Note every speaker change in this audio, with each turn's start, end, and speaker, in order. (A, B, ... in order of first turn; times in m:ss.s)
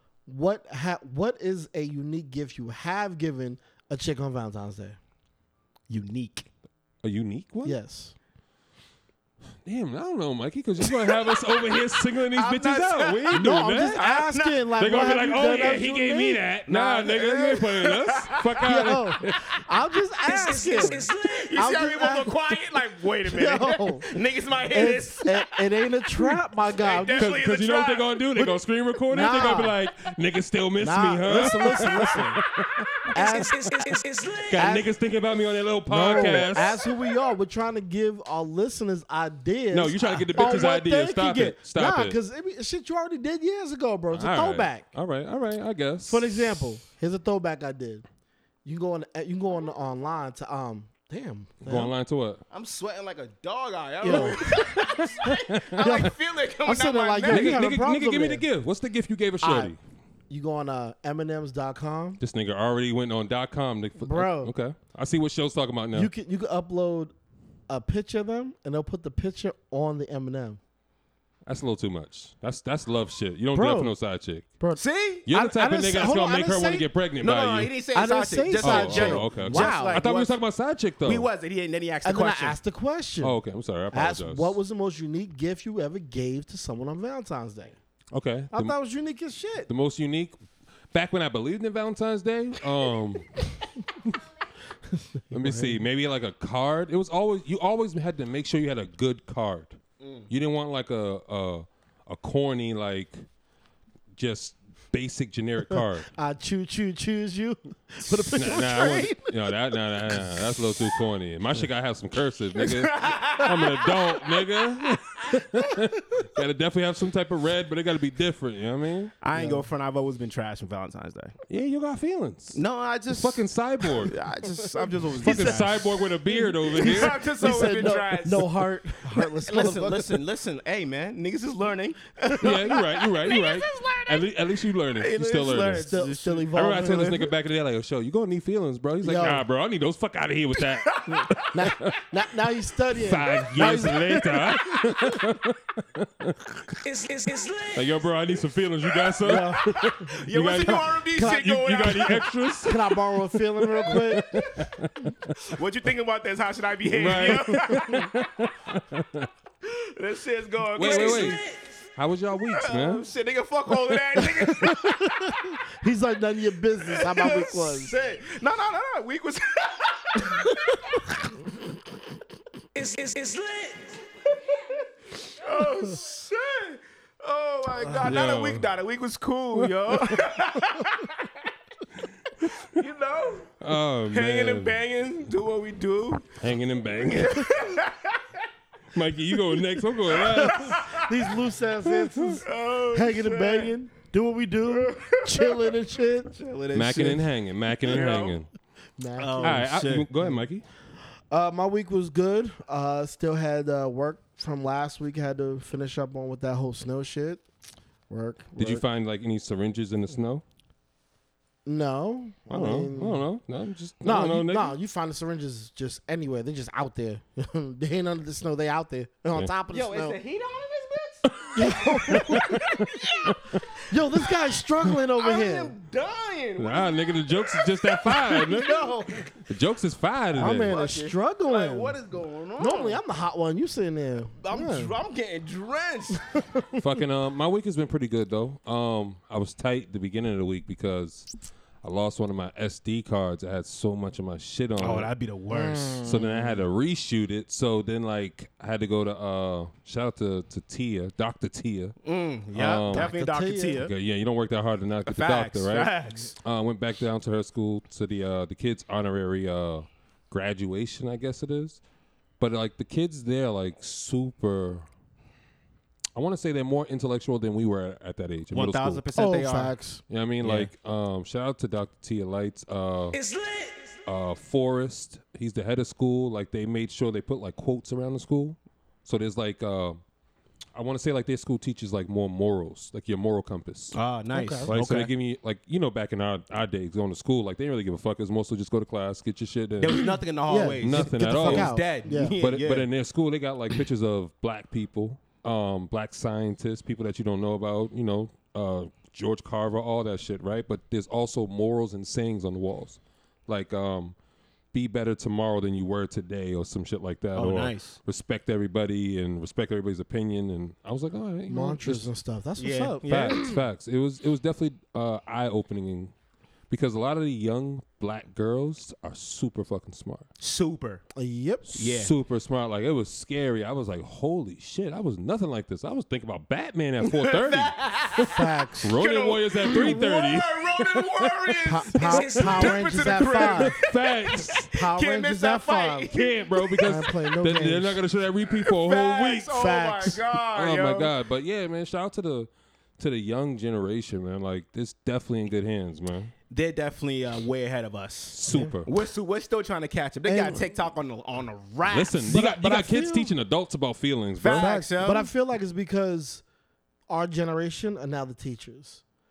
0:00.3-0:05.0 A
0:05.9-0:06.5 B
0:07.0-0:07.8 C
0:07.6-0:08.2 A
0:09.6-0:14.0 C
0:11.1-0:11.8 B
0:12.3-0:14.7 B
0:13.3-0:16.4 A
0:14.8-0:19.5 C
0:16.7-0:18.6 B
0:18.6-0:22.5 A
0:20.3-0:21.5 D
0:21.3-0:25.6 B
0:23.3-0:24.1 A
0:24.7-0:27.3 A
0:26.8-0:28.6 B
0:27.1-0:32.9 C
0:29.1-0:29.8 A
0:30.8-0:32.4 A
0:33.1-0:33.7 A
0:33.2-0:34.6 D
0:34.5-0:36.8 C
0:34.6-0:34.9 A
0:35.9-0:44.9 A
0:39.7-0:42.2 C
0:44.1-0:46.4 C
0:46.1-0:48.0 A
0:48.6-0:51.9 A
0:51.6-0:52.4 C
0:52.5-0:57.6 B
0:54.0-0:58.5 A
0:54.1-0:54.5 C
0:55.5-0:56.0 C
0:57.3-0:59.8 C
0:59.4-0:59.7 A
1:00.3-1:02.2 A
1:02.2-1:06.1 C
1:04.0-1:04.5 A
1:05.9-1:07.1 A
1:07.7-1:10.6 A
1:11.5-1:14.5 C
1:13.6-1:13.9 A
1:14.6-1:16.9 A
1:14.8-1:15.3 B
1:15.3-1:17.7 C
1:17.2-1:20.4 B
1:17.9-1:20.0 A
1:18.6-1:21.3 C
1:21.0-1:22.6 B
1:22.0-1:23.4 A
1:23.2-1:24.6 C
1:23.9-1:27.8 A
1:28.1-1:28.8 C
1:28.5-1:29.7 A
1:29.7-1:30.4 C
1:30.9-1:33.4 C
1:35.0-1:35.8 A
1:35.3-1:43.2 C
1:40.0-1:40.3 B
1:44.2-1:46.1 C
1:46.2-1:49.2 A
1:48.4-1:59.1 C
1:48.6-1:49.1 B
1:52.6-1:54.1 B
1:59.2-2:01.4 B
1:59.4-1:59.6 A
2:01.5-2:04.2 C
2:02.5-2:06.0 B
2:05.2-2:07.2 C
2:05.2-2:10.2 A
2:06.7-2:14.3 B
2:12.4-2:15.9 C
2:14.9-2:17.0 B
2:15.9-2:17.3 A
2:16.5-2:22.0 C
2:19.0-2:19.4 A
2:20.8-2:21.4 B
2:21.1-2:24.8 A
2:22.9-2:26.8 C
2:26.8-2:28.0 D
2:27.7-2:35.4 C
2:29.0-2:32.3 B
2:29.2-2:29.9 A
2:31.2-2:34.3 A
2:35.4-2:38.1 B
2:36.9-2:39.3 C
2:39.6-2:41.4 B
2:40.8-2:41.4 C
2:40.8-2:41.8 D
2:42.0-2:43.1 C
2:42.5-2:45.1 B
2:44.2-2:47.9 A
2:46.8-2:51.0 B
2:50.2-2:50.8 A
2:52.7-2:54.0 D
2:54.6-3:01.4 B
2:58.0-2:58.7 C
2:59.6-3:00.3 C
3:02.4-3:02.8 C
3:02.6-3:03.6 B
3:03.6-3:04.8 C
3:04.1-3:06.4 B
3:06.4-3:07.6 C
3:07.0-3:08.2 B
3:08.9-3:10.8 C
3:10.1-3:11.1 B
3:10.4-3:16.4 A
3:12.4-3:13.7 B
3:14.7-3:15.7 B
3:16.3-3:17.3 B
3:16.7-3:18.5 C
3:17.8-3:18.4 B
3:19.0-3:19.7 A
3:19.2-3:20.1 B
3:19.4-3:20.6 C
3:21.3-3:27.4 A
3:28.1-3:28.8 A
3:28.6-3:30.4 C
3:31.6-3:33.3 A
3:32.5-3:34.8 C
3:34.0-3:40.2 A
3:39.7-3:43.4 B
3:41.3-3:43.6 C
3:41.6-3:42.6 A
3:43.9-3:45.8 A
3:44.2-3:44.5 B
3:45.2-3:48.9 B
3:46.6-3:50.7 C
3:48.5-3:49.2 A
3:50.3-3:52.0 A
3:50.6-3:53.0 B
3:52.6-3:54.9 A
3:54.4-3:56.4 B
3:56.4-3:56.6 A
3:56.8-4:01.3 C
4:01.8-4:05.1 C
4:04.8-4:06.1 B
4:05.5-4:06.6 A
4:06.0-4:12.0 C
4:12.0-4:13.9 B
4:12.5-4:13.2 C
4:12.9-4:13.8 A
4:13.8-4:21.8 C
4:15.1-4:16.4 B
4:22.4-4:24.9 C
4:26.2-4:29.0 C
4:28.5-4:29.8 B
4:29.2-4:30.0 A
4:30.1-4:33.2 C
4:30.4-4:30.7 B
4:33.1-4:34.0 D
4:34.1-4:40.0 C
4:40.7-4:44.0 C
4:43.9-4:45.1 B
4:44.3-4:44.7 A
4:44.7-4:50.1 C
4:49.8-4:52.9 B
4:50.5-4:52.3 A
4:50.8-5:04.2 C
5:04.7-5:12.0 C
5:07.4-5:08.0 B
5:11.5-5:13.6 A
5:12.6-5:13.5 B
5:13.1-5:16.1 C
5:16.7-5:20.3 C
5:20.4-5:21.0 B
5:21.2-5:21.7 A
5:21.7-5:31.6 C
5:21.8-5:22.1 B
5:27.1-5:28.3 B
5:28.3-5:29.0 A
5:28.9-5:36.9 B
5:31.7-5:33.8 A
5:32.1-5:32.6 D
5:33.0-5:34.7 C
5:34.7-5:36.1 A
5:36.1-5:39.6 C
5:36.8-5:38.0 A
5:38.6-5:41.1 B
5:39.5-5:40.2 A
5:40.5-5:46.3 C
5:46.5-5:52.6 B
5:48.3-5:48.9 C
5:48.5-5:48.8 A
5:50.3-5:50.6 A
5:51.9-5:54.8 C
5:52.2-5:53.3 A
5:54.4-5:55.3 B
5:54.5-5:56.4 A
5:57.1-5:59.0 A